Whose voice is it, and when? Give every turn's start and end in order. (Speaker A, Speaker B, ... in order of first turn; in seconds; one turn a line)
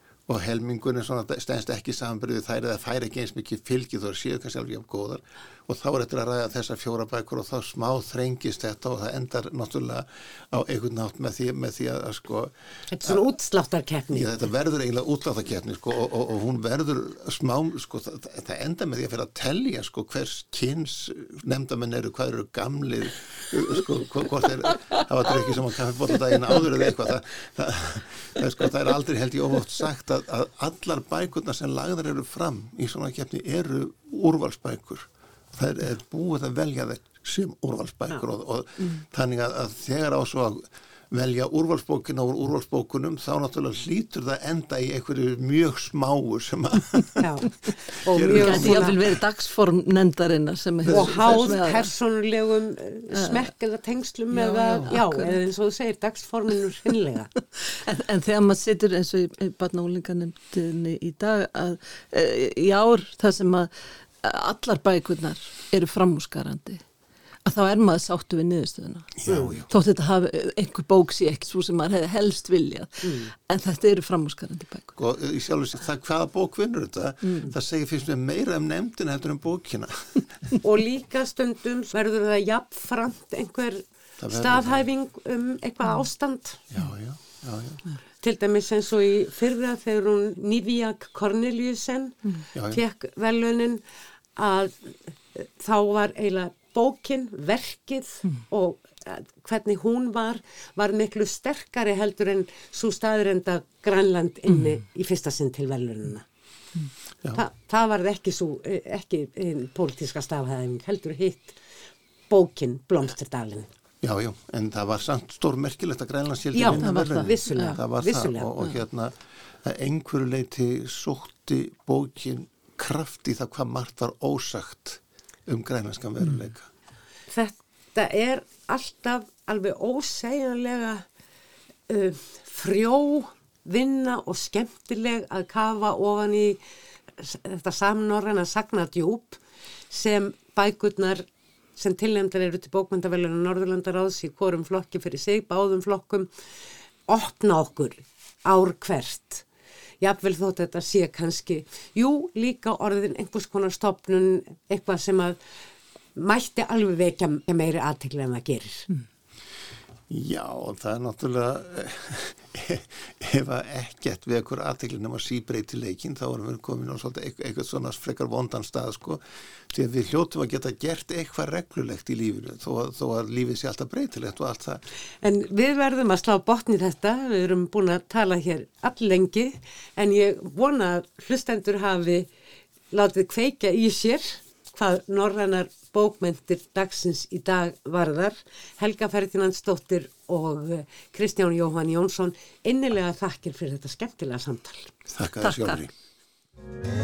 Speaker A: 0.3-13.2
Speaker B: 12.9-14.4
Speaker A: 14.1-47.4
Speaker B: 47.2-49.0
Speaker A: 48.1-49.2
Speaker C: 48.3-51.9
Speaker A: 50.8-51.5
Speaker B: 50.9-57.3
Speaker C: 53.1-53.5
Speaker C: 54.3-55.4
Speaker C: 57.6-66.8
Speaker C: 67.4-74.9
Speaker A: 69.2-69.7
Speaker B: 69.3-69.6
Speaker B: 73.0-73.3
Speaker A: 75.0-80.5
Speaker B: 80.6-86.6
Speaker A: 84.2-84.9
Speaker A: 86.7-87.8
Speaker B: 88.2-93.8
Speaker A: 92.5-92.8
Speaker B: 94.3-106.2
Speaker B: 107.3-111.6
Speaker B: 112.3-113.7
Speaker A: 114.0-126.7
Speaker B: 116.5-118.5
Speaker C: 116.8-117.8
Speaker B: 127.3-131.1
Speaker B: 131.9-136.6
Speaker B: 137.2-146.3
Speaker B: 147.1-149.4
Speaker B: 150.0-155.4
Speaker B: 156.1-158.9
Speaker A: 160.1-174.8
Speaker B: 175.2-182.3
Speaker B: 182.9-194.9
Speaker A: 195.1-195.9
Speaker C: 195.4-195.8